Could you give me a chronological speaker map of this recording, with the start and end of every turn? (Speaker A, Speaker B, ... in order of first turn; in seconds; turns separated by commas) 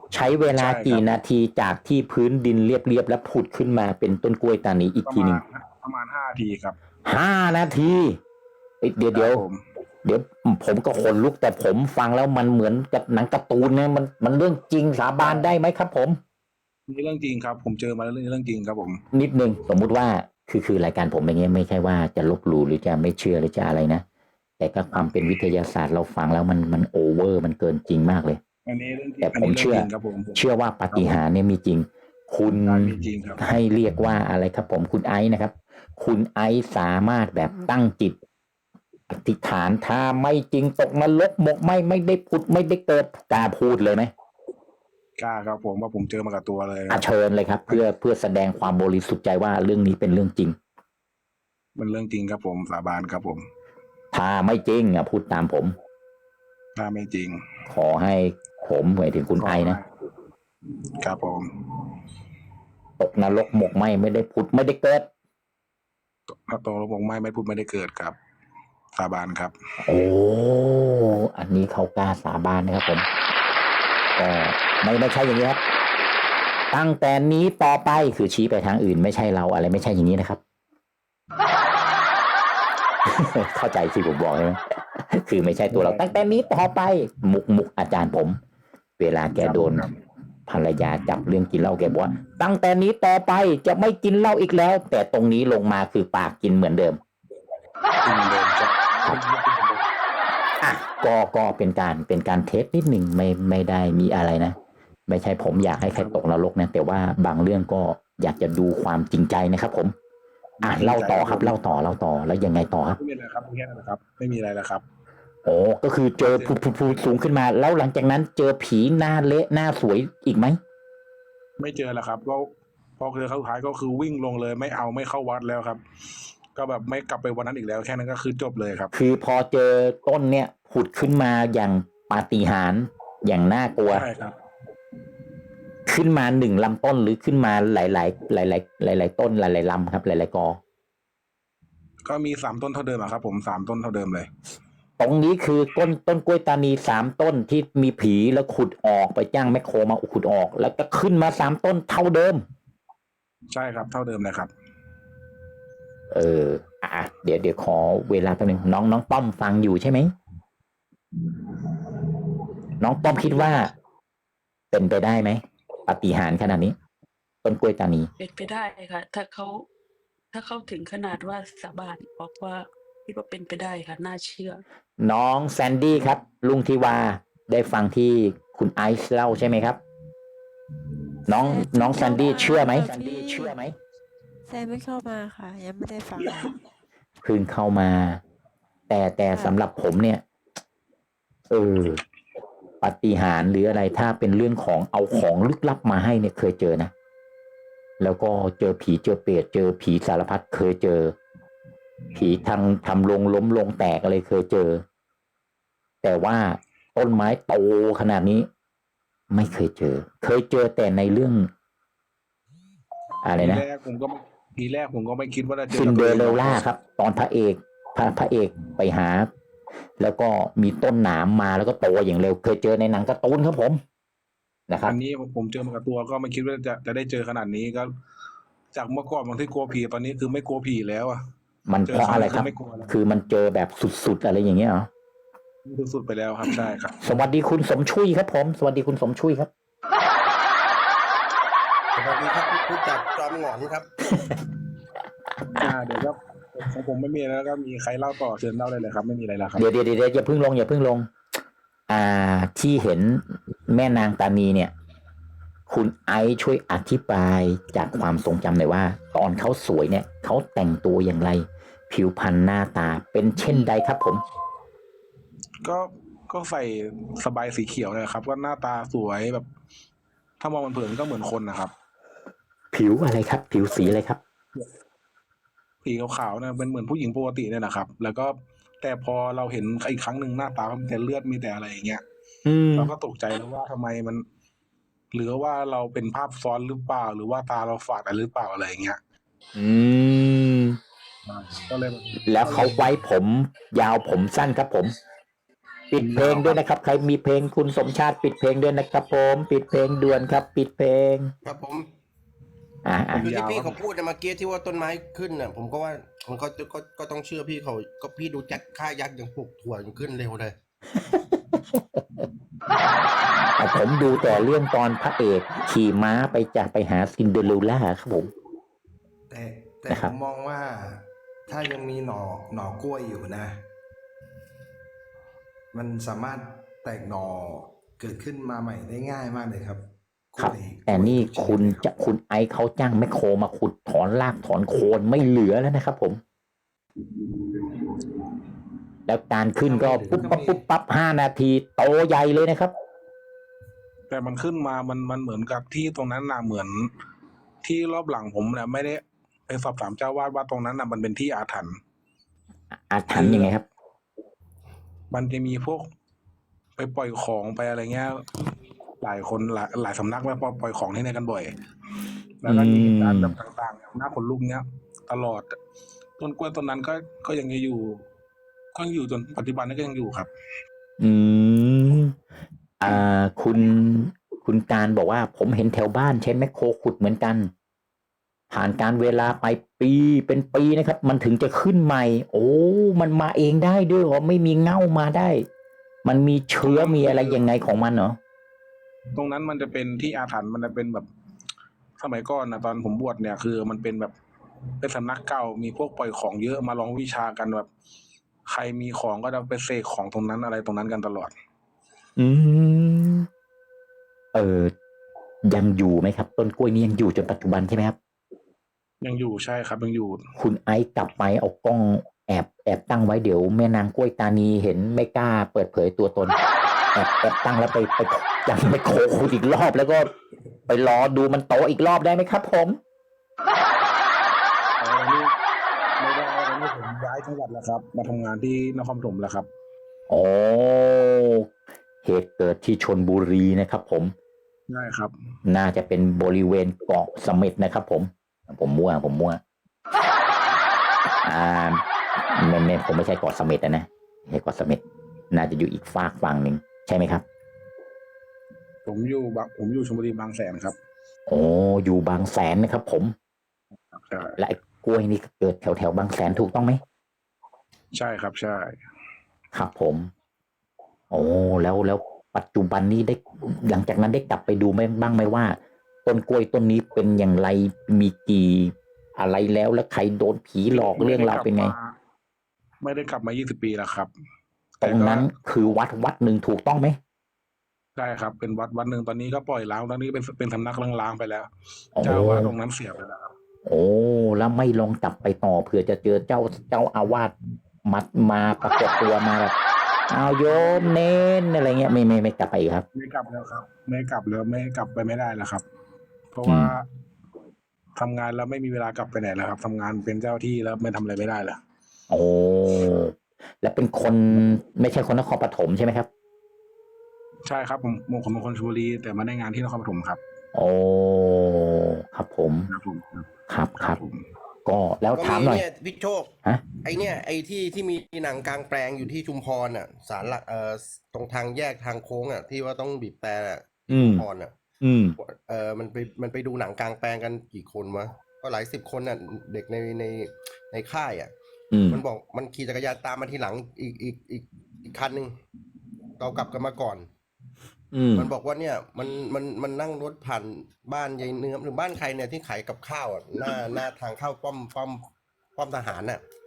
Speaker A: 0.1-5.4, Speaker B: 0.5-1.1, Speaker B: 5.1-6.8, Speaker A: 7.1-8.2, Speaker A: 8.8-9.4, Speaker B: 9.1-9.6, Speaker A: 10.0-16.2, Speaker B: 15.2-15.5, Speaker B: 16.9-19.0, Speaker A: 19.1-24.0, Speaker A: 24.6-28.4, Speaker B: 28.7-31.2, Speaker A: 29.2-38.2, Speaker B: 32.6-33.4, Speaker A: 39.1-44.1, Speaker B: 45.2-47.0, Speaker A: 46.9-50.6, Speaker B: 51.8-53.5, Speaker A: 54.1-55.8, Speaker B: 56.8-57.4, Speaker A: 57.7-59.8, Speaker B: 59.4-59.9, Speaker B: 61.0-61.5, Speaker A: 63.0-65.1, Speaker B: 66.5-68.2, Speaker B: 69.0-69.5, Speaker A: 69.8-73.1, Speaker A: 74.2-75.6, Speaker A: 76.7-80.4, Speaker A: 83.0-88.4, Speaker B: 85.7-86.1, Speaker A: 89.0-89.9, Speaker B: 89.4-89.9, Speaker A: 90.5-97.0, Speaker B: 98.0-99.9, Speaker A: 100.6-104.6, Speaker A: 105.1-110.0, Speaker B: 105.8-106.2, Speaker B: 110.6-111.5, Speaker A: 110.6-113.0, Speaker B: 113.0-114.8, Speaker A: 115.5-120.6, Speaker B: 116.2-117.0, Speaker B: 121.6-125.8, Speaker B: 126.5-128.9, Speaker A: 128.9-134.1, Speaker B: 133.9-134.3, Speaker A: 135.9-140.6, Speaker B: 142.1-144.3, Speaker A: 145.0-152.4, Speaker B: 153.5-154.5, Speaker A: 156.1-160.1, Speaker A: 162.8-163.7, Speaker A: 164.7-166.8, Speaker A: 167.4-168.1, Speaker C: 168.2-169.7, Speaker C: 170.3-174.6, Speaker A: 175.0-179.8, Speaker A: 181.3-183.7, Speaker D: 181.4-183.6, Speaker D: 184.5-186.5, Speaker A: 187.2-188.2, Speaker A: 188.9-190.2, Speaker A: 191.5-192.0, Speaker A: 192.8-196.9, Speaker A: 198.0-201.2, Speaker A: 202.1-204.8, Speaker A: 206.0-208.5, Speaker A: 209.3-211.5, Speaker A: 213.2-213.6, Speaker B: 213.4-216.7, Speaker A: 215.7-219.3, Speaker A: 220.0-223.8, Speaker A: 224.7-224.9, Speaker B: 224.9-227.9, Speaker B: 228.7-231.2, Speaker A: 231.7-234.9, Speaker B: 231.9-232.9, Speaker B: 235.7-237.0, Speaker A: 237.0-239.5, Speaker E: 241.9-243.9, Speaker B: 245.5-249.6, Speaker A: 249.6-251.1, Speaker A: 251.9-254.7, Speaker A: 255.7-264.2, Speaker B: 265.6-269.5, Speaker B: 270.4-271.7, Speaker A: 272.7-274.2, Speaker B: 275.8-282.0, Speaker A: 282.5-282.9, Speaker B: 282.8-284.2, Speaker B: 285.1-289.0, Speaker A: 289.6-290.8, Speaker B: 291.3-292.9, Speaker A: 292.3-294.9, Speaker A: 295.9-301.3, Speaker B: 295.9-296.6, Speaker E: 301.4-301.9, Speaker A: 302.9-303.3, Speaker B: 303.1-303.8, Speaker E: 303.2-310.6, Speaker A: 311.1-312.0, Speaker A: 313.6-318.3, Speaker F: 319.3-323.7, Speaker F: 325.7-331.9, Speaker A: 330.4-336.2, Speaker A: 339.1-342.7, Speaker F: 339.7-340.6, Speaker B: 344.1-346.9, Speaker B: 347.6-351.8, Speaker A: 352.7-353.6, Speaker B: 353.1-353.5, Speaker B: 355.1-355.9, Speaker B: 356.8-358.3, Speaker B: 359.0-361.5, Speaker B: 362.4-365.6, Speaker A: 362.5-363.4, Speaker B: 366.2-368.0, Speaker B: 368.8-370.3, Speaker A: 371.0-372.1, Speaker A: 372.8-377.5, Speaker A: 378.5-385.5, Speaker A: 386.1-388.2, Speaker B: 386.6-387.4, Speaker B: 389.1-391.1, Speaker B: 392.0-394.1, Speaker B: 394.8-397.7, Speaker B: 398.5-401.3, Speaker A: 402.2-403.3, Speaker A: 404.3-404.7, Speaker A: 405.4-408.0, Speaker B: 409.0-410.2, Speaker A: 410.4-416.4, Speaker A: 416.9-420.1, Speaker A: 420.7-422.8, Speaker B: 424.8-425.3, Speaker B: 426.0-429.5, Speaker A: 430.1-431.5, Speaker A: 432.1-434.1, Speaker B: 434.7-435.1, Speaker A: 435.5-439.4, Speaker A: 441.2-444.8, Speaker A: 445.3-447.2, Speaker B: 448.9-450.8, Speaker A: 451.3-453.1, Speaker B: 453.9-454.4, Speaker A: 454.4-456.8, Speaker B: 457.9-458.8, Speaker A: 459.5-460.1, Speaker A: 461.1-471.7, Speaker B: 470.7-471.9, Speaker B: 472.8-474.1, Speaker B: 474.8-475.3, Speaker A: 474.8-477.0, Speaker B: 478.0-481.5, Speaker A: 482.0-482.5, Speaker B: 482.0-483.3, Speaker A: 483.7-487.3, Speaker A: 487.9-489.5, Speaker A: 490.1-492.9, Speaker B: 490.5-491.0, Speaker B: 492.9-495.6, Speaker B: 496.3-496.8, Speaker A: 496.5-496.7, Speaker B: 498.0-501.6, Speaker A: 502.1-506.1, Speaker B: 507.5-510.2, Speaker A: 510.6-512.7, Speaker B: 512.7-514.2, Speaker A: 513.5-514.0, Speaker A: 514.7-515.6, Speaker E: 515.1-516.3, Speaker E: 516.8-524.5, Speaker A: 523.9-524.2, Speaker A: 524.8-525.2, Speaker E: 525.2-531.3, Speaker A: 531.7-532.0, Speaker E: 531.9-535.4, Speaker E: 536.2-537.1, Speaker A: 537.9-538.3, Speaker E: 538.1-546.2